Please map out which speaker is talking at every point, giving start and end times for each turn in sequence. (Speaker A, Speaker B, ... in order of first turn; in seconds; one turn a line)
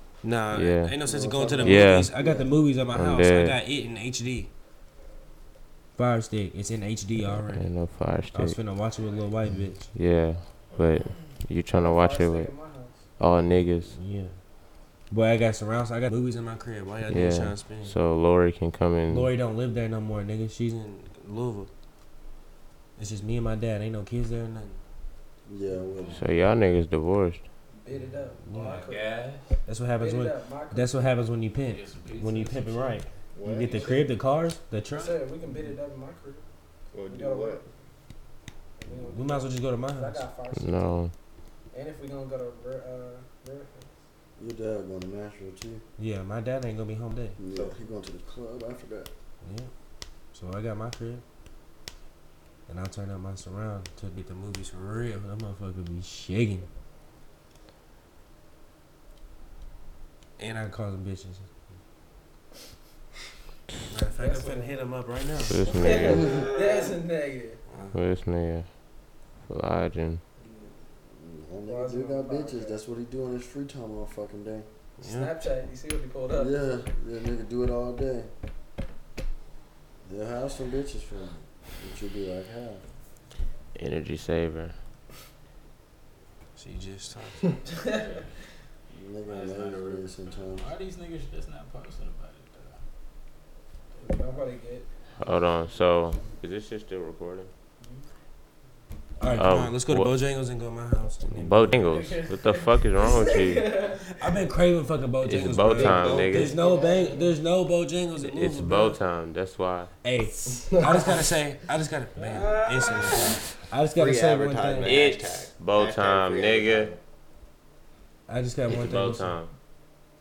Speaker A: 0.2-4.5
Speaker B: 0.5-0.9
Speaker C: 1.0-2.5
Speaker B: 1.6-2.1
Speaker B: 2.9-3.6
Speaker A: 6.0-7.7
Speaker B: 7.2-8.6
Speaker A: 8.3-9.9
Speaker B: 9.9-12.5
Speaker D: 11.7-13.0
Speaker B: 13.2-14.0
Speaker A: 13.9-14.4
Speaker A: 15.1-18.0
Speaker B: 17.1-19.3
Speaker A: 19.1-21.7
Speaker A: 23.0-24.8
Speaker C: 25.5-26.4
Speaker B: 26.1-27.5
Speaker D: 27.8-29.2
Speaker A: 28.5-28.9
Speaker E: 28.5-29.6
Speaker A: 29.6-35.2
Speaker D: 30.0-31.1
Speaker E: 31.6-33.0
Speaker F: 33.3-33.9
Speaker E: 33.6-34.1
Speaker D: 35.0-36.4
Speaker F: 36.9-37.7
Speaker D: 37.1-37.6
Speaker D: 38.8-41.0
Speaker A: 39.0-40.2
Speaker B: 40.5-41.1
Speaker D: 41.7-44.0
Speaker C: 44.4-45.8
Speaker A: 46.0-47.4
Speaker C: 47.4-49.1
Speaker F: 47.5-47.8
Speaker A: 49.4-49.7
Speaker A: 50.3-51.2
Speaker A: 52.7-56.7
Speaker A: 60.4-61.5
Speaker A: 63.9-66.3
Speaker D: 64.2-64.8
Speaker B: 65.5-66.3
Speaker D: 65.7-67.6
Speaker C: 66.1-66.5
Speaker A: 67.7-68.0
Speaker B: 67.9-68.7
Speaker B: 69.5-70.2
Speaker D: 70.4-70.9
Speaker C: 71.1-74.7
Speaker D: 71.7-72.8
Speaker A: 75.0-75.3
Speaker D: 75.0-76.6
Speaker C: 76.3-78.3
Speaker C: 80.0-82.8
Speaker B: 83.8-84.8
Speaker A: 86.6-87.7
Speaker E: 87.9-88.3
Speaker C: 88.9-90.7
Speaker E: 89.3-92.8
Speaker D: 94.0-94.9
Speaker B: 95.2-97.5
Speaker A: 99.2-102.1
Speaker B: 99.3-100.1
Speaker B: 101.3-103.7
Speaker D: 101.9-104.1
Speaker A: 104.2-109.0
Speaker B: 105.2-106.6
Speaker F: 105.7-106.5
Speaker D: 106.3-107.3
Speaker B: 108.2-109.9
Speaker A: 110.0-115.0
Speaker D: 112.2-113.4
Speaker F: 113.9-117.0
Speaker B: 114.8-116.9
Speaker A: 118.3-119.4
Speaker B: 118.7-119.5